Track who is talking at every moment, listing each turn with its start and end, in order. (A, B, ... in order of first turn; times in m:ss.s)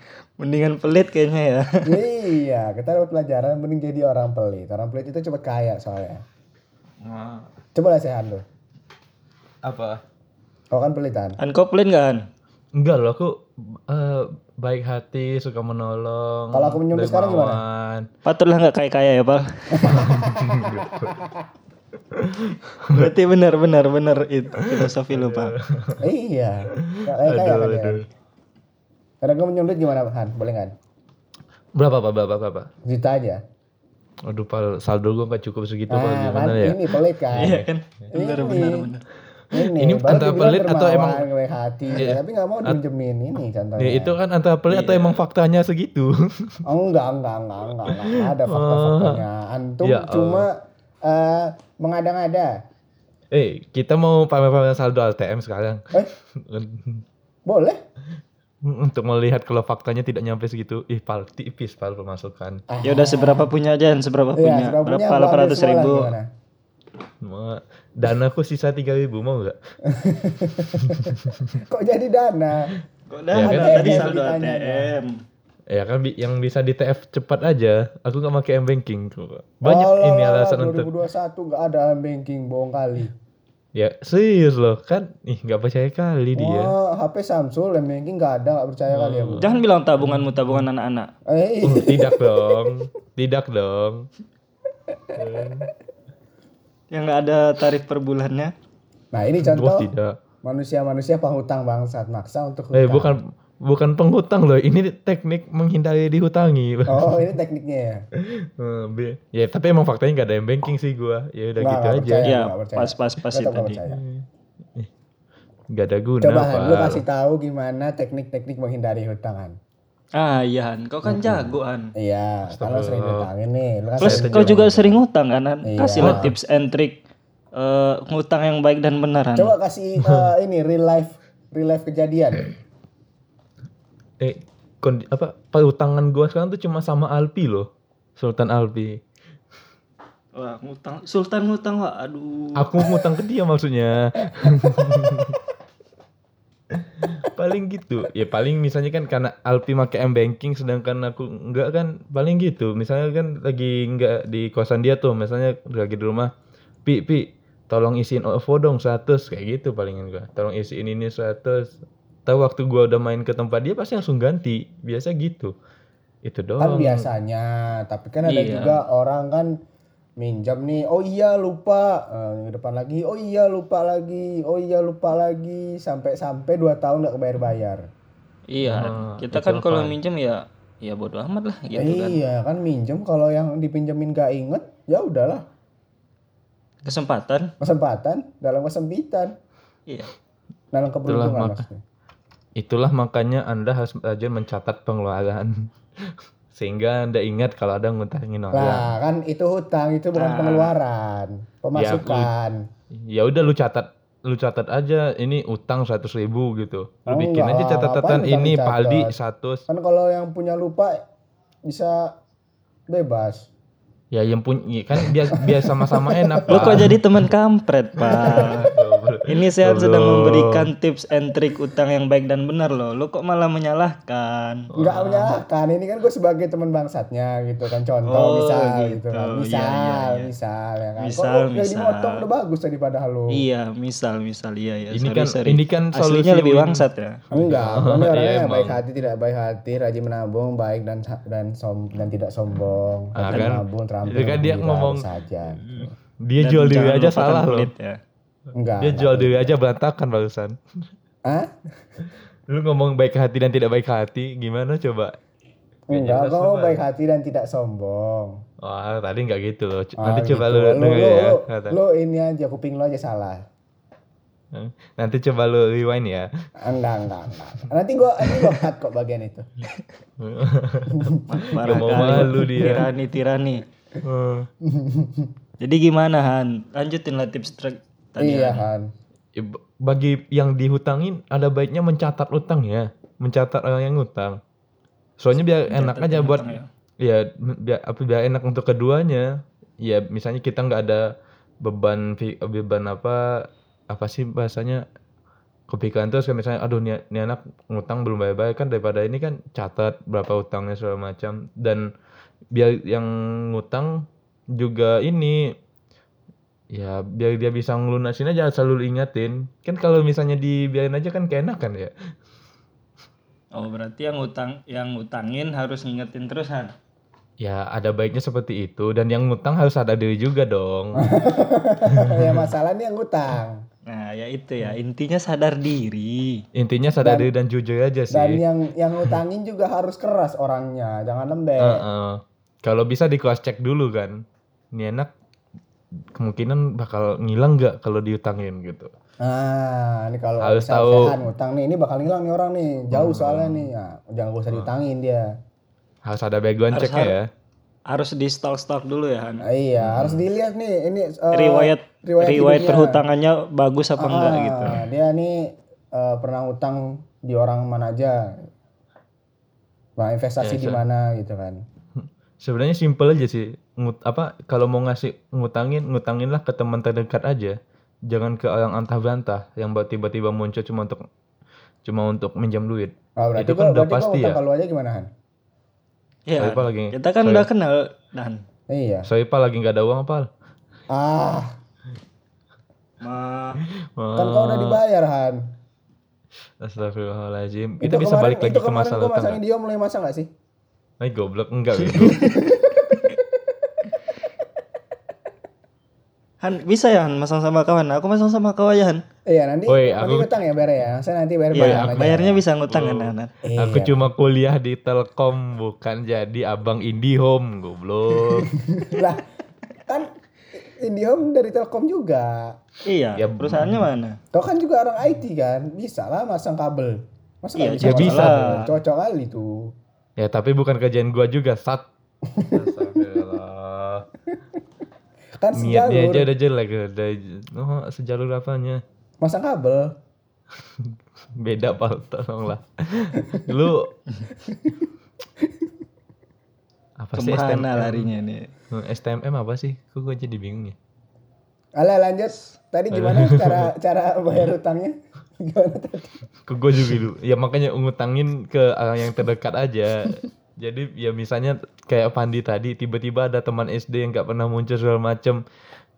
0:00.4-0:01.9 A
0:01.9-0:06.2 B
0:07.0-0:07.5 C
0:07.8-0:08.4 B
0:09.6-0:10.0 C
0:10.7-0:11.4 B
0:11.4-0:12.3 A
0:12.8-0:18.1 C
0:16.5-0:17.6 B
0:18.2-0:20.1 A
0:19.7-0:20.2 B
0:19.9-0:21.2 C
0:21.1-0:21.4 B
0:22.1-0:23.1 C
0:22.9-0:25.6 A
0:24.8-0:26.0 C
0:26.0-0:28.0 B
0:26.8-0:28.1 C
0:29.2-0:30.7 B
0:31.8-0:32.7 C
0:32.8-0:33.4 B
0:34.3-0:37.7 C
0:35.9-0:37.6 B
0:37.4-0:39.0 A
0:38.1-0:38.9 B
0:39.5-0:44.2 B
0:39.6-0:41.2 C
0:42.0-0:42.8 C
0:43.8-0:46.6 C
0:44.7-0:45.2 A
0:46.6-0:52.6 B
0:47.9-0:49.2 C
0:49.8-0:50.5 C
0:53.3-0:57.0 C
0:57.5-0:57.8 B
0:58.6-1:02.6 C
1:02.7-1:03.5 B
1:02.8-1:06.1 A
1:04.4-1:06.3 B
1:07.2-1:09.6 C
1:09.9-1:12.7 B
1:10.7-1:11.6 C
1:13.1-1:15.1 A
1:13.4-1:14.1 C
1:13.4-1:14.9 B
1:15.7-1:20.9 C
1:19.6-1:23.1 B
1:23.8-1:26.7 C
1:26.4-1:29.4 B
1:28.9-1:29.4 C
1:29.4-1:31.1 A
1:30.0-1:30.6 C
1:31.3-1:32.7 B
1:31.6-1:34.1 C
1:35.2-1:35.7 C
1:36.9-1:38.5 A
1:39.1-1:39.9 B
1:39.4-1:40.2 C
1:40.4-1:43.2 B
1:42.7-1:47.3 C
1:46.9-1:48.1 B
1:48.2-1:52.3 C
1:51.6-1:54.0 B
1:52.3-1:53.8 A
1:53.9-1:54.2 C
1:55.7-1:57.0 C
1:56.2-1:59.6 B
2:00.2-2:01.9 A
2:01.0-2:04.6 B
2:02.5-2:03.3 C
2:04.0-2:05.0 C
2:04.0-2:07.0 A
2:05.6-2:06.3 B
2:06.0-2:06.3 C
2:07.6-2:09.5 A
2:09.4-2:12.5 B
2:14.2-2:19.0 C
2:20.4-2:22.7 A
2:22.6-2:25.4 C
2:26.8-2:36.3 C
2:36.9-2:41.8 C
2:42.3-2:45.5 C
2:46.2-2:47.1 C
2:46.6-2:49.5 B
2:48.2-2:48.8 A
2:50.2-2:57.9 B
2:58.5-3:02.2 A
2:58.6-3:00.0 C
3:01.8-3:05.5 B
3:06.8-3:07.5 A
3:07.6-3:09.4 B
3:10.7-3:11.8 B
3:11.1-3:11.6 C
3:12.6-3:18.9 C
3:18.5-3:22.6 B
3:20.1-3:20.8 A
3:21.8-3:22.3 C
3:22.9-3:29.6 C
3:27.1-3:29.1 B
3:29.7-3:31.0 B
3:31.7-3:32.1 B
3:32.9-3:33.5 B
3:34.1-3:37.0 C
3:35.3-3:36.9 B
3:36.5-3:38.7 A
3:38.0-3:40.7 C
3:38.1-3:38.6 B
3:39.3-3:44.7 A
3:44.7-3:45.4 C
3:44.8-3:53.4 B
3:48.1-3:50.3 A
3:51.0-3:52.2 A
3:53.3-3:57.4 A
3:54.9-3:56.8 C
3:57.3-4:05.9 B
3:57.6-3:58.8 C
4:03.2-4:05.1 C
4:05.6-4:07.7 C
4:06.4-4:08.0 A
4:08.6-4:09.5 B
4:08.8-4:10.6 C
4:11.3-4:11.6 B
4:12.5-4:15.2 C
4:15.9-4:18.4 B
4:15.9-4:16.8 C
4:18.6-4:21.8 C
4:20.0-4:23.4 B
4:24.5-4:26.3 C
4:26.6-4:29.5 B
4:30.2-4:32.9 C
4:30.9-4:32.9 B
4:31.3-4:33.6 A
4:34.0-4:34.5 C
4:34.6-4:35.3 B
4:35.6-4:38.6 A
4:38.2-4:38.9 B
4:39.4-4:44.4 C
4:45.2-4:51.1 C
4:45.7-4:46.7 A
4:51.6-4:54.8 C
4:55.7-5:01.9 C
5:02.5-5:05.5 C
5:06.7-5:11.9 C
5:13.6-5:16.7 A
5:17.4-5:21.1 C
5:21.0-5:23.6 B
5:21.9-5:22.5 C
5:23.9-5:26.4 A
5:26.6-5:28.4 C
5:27.0-5:27.3 B
5:28.1-5:31.8 B
5:31.6-5:34.2 C
5:34.7-5:35.1 C
5:36.2-5:38.9 C
5:39.2-5:45.3 B
5:40.4-5:41.2 C
5:42.9-5:43.7 C
5:46.0-5:47.3 C
5:46.7-5:47.2 A
5:47.9-5:49.5 A
5:49.4-5:53.0 B
5:49.8-5:50.3 C
5:51.3-5:54.8 A
5:54.0-5:58.2 B
6:00.0-6:01.6 B
6:00.4-6:00.8 C
6:02.0-6:07.6 C
6:08.1-6:11.0 C
6:11.8-6:14.4 C
6:13.2-6:15.1 B
6:16.3-6:18.4 A
6:16.4-6:17.5 C
6:18.7-6:19.1 B
6:19.0-6:20.3 C
6:20.9-6:21.6 B
6:23.0-6:23.6 A
6:24.0-6:24.8 C
6:24.2-6:25.4 B
6:26.6-6:29.4 C
6:27.8-6:30.3 B
6:31.0-6:32.3 C
6:32.0-6:33.8 B
6:36.4-6:39.0 A
6:39.3-6:42.4 B
6:39.7-6:40.3 C
6:41.5-6:43.3 A
6:41.6-6:48.5 C
6:43.4-6:44.0 B
6:48.5-6:49.3 B
6:49.9-6:52.6 B
6:52.8-6:54.2 A
6:53.2-6:53.9 C
6:54.3-6:59.7 B
6:57.6-6:58.7 A
6:57.8-6:58.6 C
7:00.2-7:01.8 C
7:02.3-7:02.7 B
7:02.4-7:04.1 C
7:05.4-7:06.3 B
7:05.6-7:08.8 C
7:09.2-7:10.0 B
7:10.8-7:13.9 C
7:14.4-7:14.9 B
7:15.4-7:15.7 B
7:17.0-7:18.1 C
7:17.2-7:18.5 A
7:18.7-7:20.8 C
7:21.8-7:26.2 B
7:22.9-7:23.7 C
7:26.5-7:35.4 C